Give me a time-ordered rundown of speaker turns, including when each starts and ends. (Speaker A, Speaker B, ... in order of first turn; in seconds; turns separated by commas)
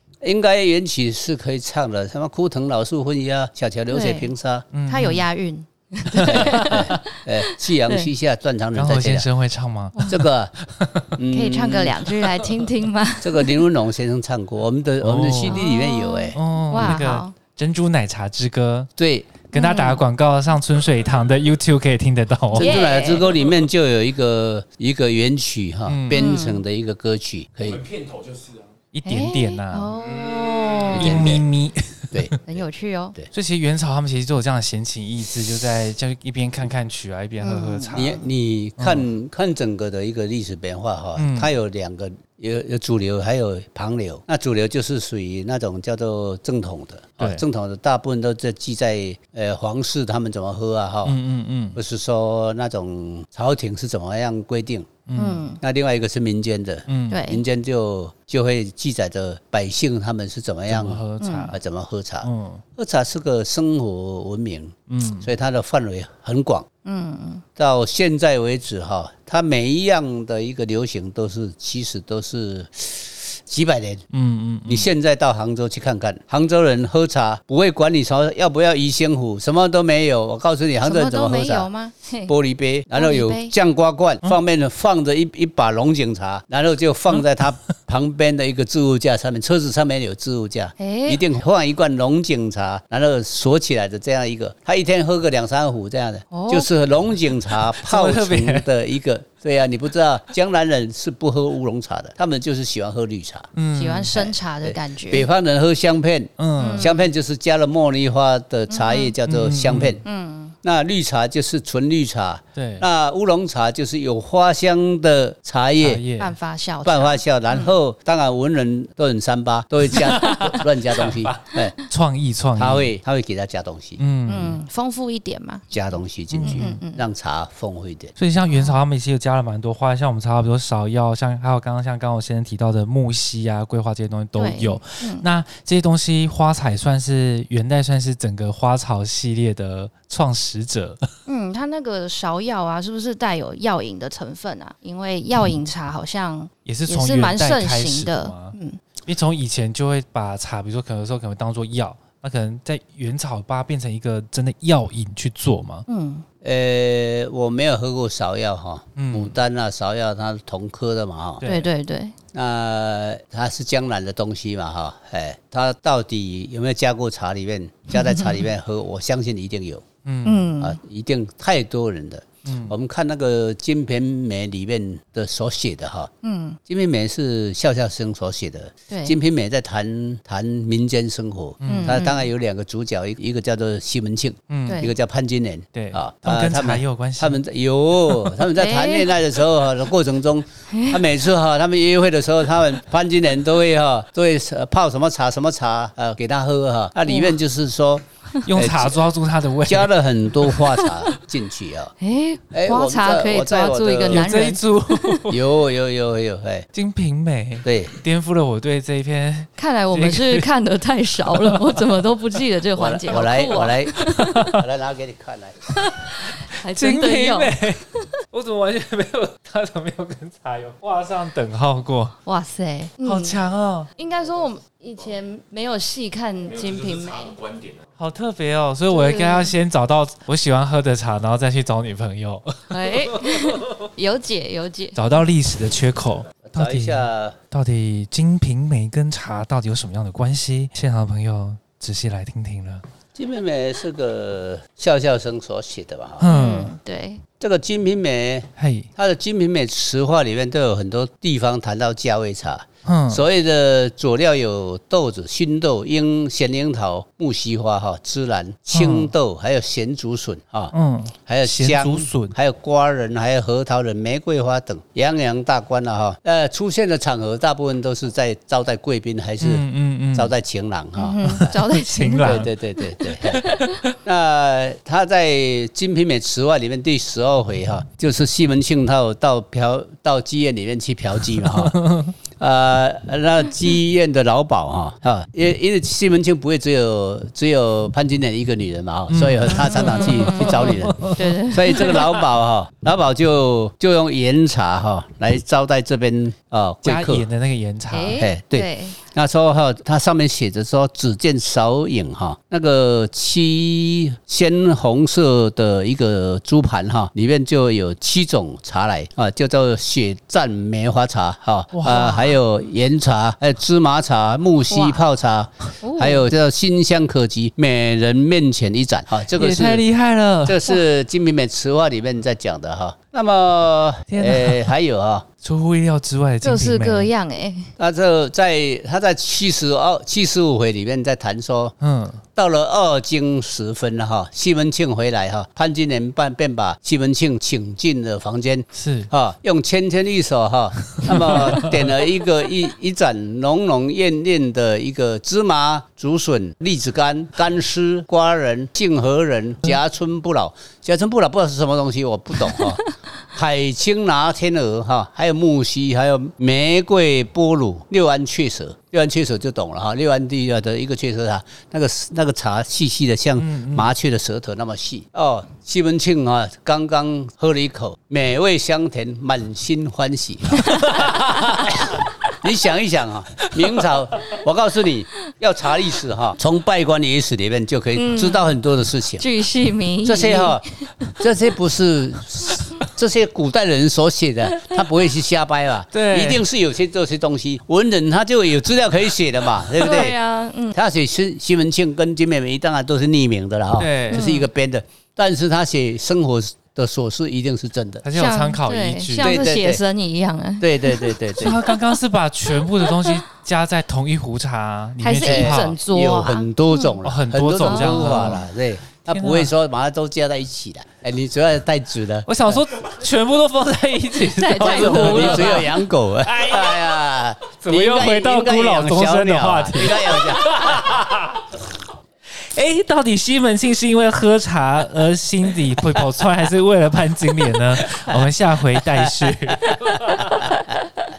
Speaker A: 0.2-4.7, Speaker B: 3.9-4.3, Speaker C: 4.7-5.3, Speaker B: 4.9-8.1, Speaker C: 6.1-7.0, Speaker A: 6.2-9.3, Speaker C: 8.8-11.2, Speaker B: 10.0-10.2, Speaker A: 10.1-10.5, Speaker A: 11.2-12.0, Speaker B: 11.3-13.7, Speaker A: 13.2-17.0, Speaker C: 15.0-15.7, Speaker B: 15.4-17.3, Speaker C: 16.3-18.9, Speaker A: 19.0-19.3, Speaker C: 19.5-22.8, Speaker B: 19.5-20.0, Speaker B: 22.5-23.3, Speaker A: 22.5-28.0, Speaker C: 25.9-26.4, Speaker B: 26.1-26.6, Speaker C: 28.9-29.9, Speaker B: 29.1-31.3, Speaker A: 30.9-31.4, Speaker C: 30.9-32.3, Speaker A: 32.1-32.6, Speaker B: 32.5-33.1, Speaker C: 33.3-38.2, Speaker B: 37.4-38.2, Speaker A: 37.9-51.2, Speaker C: 38.8-39.1, Speaker C: 41.2-41.5, Speaker C: 47.2-47.4, Speaker C: 51.0-51.8, Speaker A: 51.8-54.9, Speaker C: 55.1-55.5, Speaker B: 55.1-55.6, Speaker A: 55.6-66.7, Speaker C: 56.9-57.3, Speaker B: 57.1-57.4, Speaker C: 60.7-61.6, Speaker B: 61.2-61.5, Speaker C: 62.2-62.6, Speaker C: 64.9-65.3, Speaker B: 66.8-67.4, Speaker A: 67.6-74.0, Speaker C: 74.1-74.9, Speaker A: 74.7-81.7, Speaker B: 80.8-82.3, Speaker A: 82.3-103.5, Speaker B: 82.9-83.5, Speaker B: 90.8-91.2, Speaker B: 96.3-96.7, Speaker C: 97.5-98.7, Speaker C: 103.5-104.2, Speaker B: 103.7-105.3, Speaker A: 104.1-110.0, Speaker C: 106.4-106.9, Speaker B: 106.6-107.0, Speaker B: 108.7-109.1, Speaker C: 109.2-110.0, Speaker B: 110.0-110.5, Speaker A: 110.6-116.0, Speaker C: 112.5-112.8, Speaker C: 115.8-116.4, Speaker B: 116.2-117.7, Speaker A: 116.8-121.8, Speaker C: 119.9-122.9, Speaker A: 122.6-124.0, Speaker C: 124.0-124.6, Speaker B: 124.3-125.7, Speaker A: 125.7-128.1, Speaker C: 126.3-126.8, Speaker B: 126.4-127.0, Speaker C: 128.2-141.1, Speaker B: 128.5-128.8, Speaker B: 134.4-135.3, Speaker B: 141.3-148.8, Speaker C: 146.7-155.9, Speaker B: 155.9-156.2, Speaker A: 156.4-161.4, Speaker C: 159.0-159.4, Speaker C: 161.4-161.7, Speaker B: 161.4-162.2, Speaker A: 162.3-169.8, Speaker B: 168.0-168.2, Speaker C: 170.1-170.5, Speaker B: 170.2-170.8, Speaker A: 170.6-176.1, Speaker C: 172.4-172.8, Speaker B: 176.2-176.6, Speaker A: 176.7-199.0, Speaker B: 178.9-179.2, Speaker C: 181.6-182.0, Speaker B: 181.7-182.3, Speaker C: 184.5-184.9, Speaker B: 184.7-184.9, Speaker C: 185.7-187.4, Speaker C: 188.0-188.4, Speaker B: 188.5-189.2, Speaker B: 190.7-191.0, Speaker B: 197.1-197.4, Speaker C: 198.4-200.5, Speaker A: 199.7-201.9, Speaker B: 202.0-205.3, Speaker A: 202.5-204.5, Speaker C: 204.1-205.4, Speaker A: 205.3-206.7, Speaker C: 206.7-210.5, Speaker A: 207.6-207.9, Speaker B: 209.6-214.5, Speaker C: 211.2-212.4, Speaker A: 212.8-215.7, Speaker C: 214.0-214.6, Speaker B: 215.7-218.1, Speaker C: 216.4-222.2, Speaker B: 222.3-223.4, Speaker C: 223.0-223.9, Speaker B: 224.0-227.5, Speaker C: 228.0-233.6, Speaker B: 228.9-229.5, Speaker B: 232.7-235.0, Speaker C: 234.9-242.8, Speaker A: 236.4-237.4, Speaker A: 243.2-246.3, Speaker C: 246.2-246.8, Speaker B: 246.2-247.2, Speaker A: 247.4-260.7, Speaker C: 248.6-248.9, Speaker C: 252.8-253.2, Speaker C: 258.7-259.1, Speaker C: 260.7-262.4, Speaker A: 261.3-271.6, Speaker C: 269.4-270.3, Speaker B: 271.0-273.8, Speaker C: 271.2-272.5, Speaker A: 272.2-273.5, Speaker C: 273.2-273.9, Speaker A: 274.0-281.8, Speaker C: 281.3-282.2, Speaker A: 282.4-297.3, Speaker C: 289.1-292.2, Speaker B: 289.7-292.1, Speaker C: 296.8-298.2, Speaker B: 297.9-299.0, Speaker A: 298.2-319.8, Speaker C: 311.7-312.4, Speaker B: 314.7-315.0, Speaker B: 315.8-316.3, Speaker C: 319.3-320.8, Speaker A: 320.5-325.3, Speaker C: 324.1-324.7, Speaker C: 325.4-327.1, Speaker B: 326.4-327.7, Speaker A: 327.8-331.8, Speaker C: 331.8-332.2, Speaker A: 332.4-379.3, Speaker C: 338.7-339.1, Speaker C: 341.0-341.9, Speaker B: 352.4-352.9, Speaker C: 363.4-363.9, Speaker B: 377.9-378.5, Speaker B: 379.2-381.1, Speaker A: 380.0-380.6, Speaker A: 381.1-390.2, Speaker C: 385.9-386.4, Speaker B: 389.8-390.8, Speaker A: 390.7-398.1, Speaker C: 393.8-394.3, Speaker B: 394.1-394.5, Speaker C: 398.0-399.4, Speaker B: 398.1-401.2, Speaker A: 399.2-399.8, Speaker A: 400.6-401.6, Speaker C: 401.4-405.8, Speaker B: 402.8-403.2, Speaker B: 405.0-407.0, Speaker A: 405.2-412.6, Speaker C: 407.0-408.5, Speaker B: 407.6-408.4, Speaker C: 409.1-409.5, Speaker C: 412.3-415.7, Speaker B: 414.2-415.8, Speaker A: 414.6-420.8, Speaker C: 416.3-416.9, Speaker C: 417.6-421.4, Speaker C: 422.3-430.6